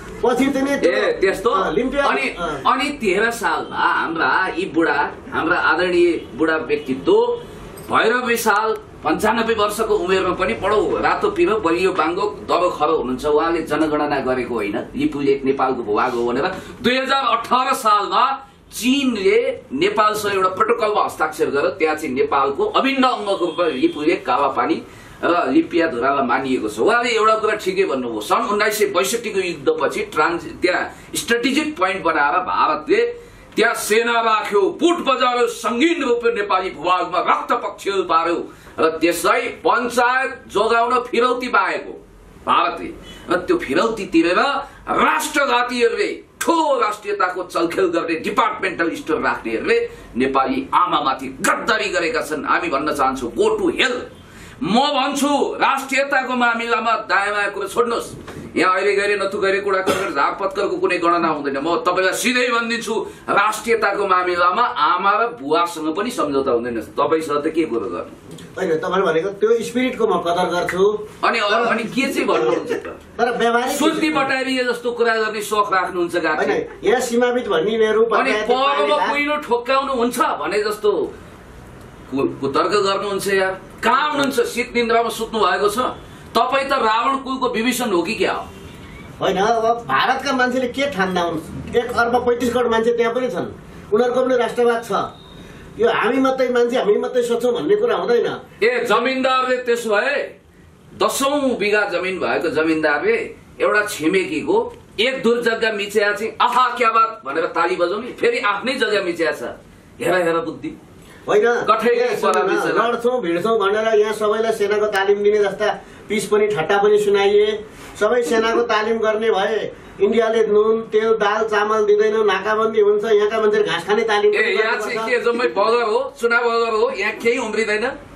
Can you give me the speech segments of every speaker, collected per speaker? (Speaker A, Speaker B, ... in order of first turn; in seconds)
Speaker A: 0.2-2.6, 68.6-74.3, 76.3-79.2, 83.9-84.3, 89.2-95.1, 95.8-99.1, 111.3-125.1
Speaker B: 0.8-54.1, 54.6-68.2, 71.2-73.0, 73.7-76.6, 78.1-81.1, 82.1-88.5, 98.6-100.3, 101.0-110.8, 111.6-112.9, 124.3-127.9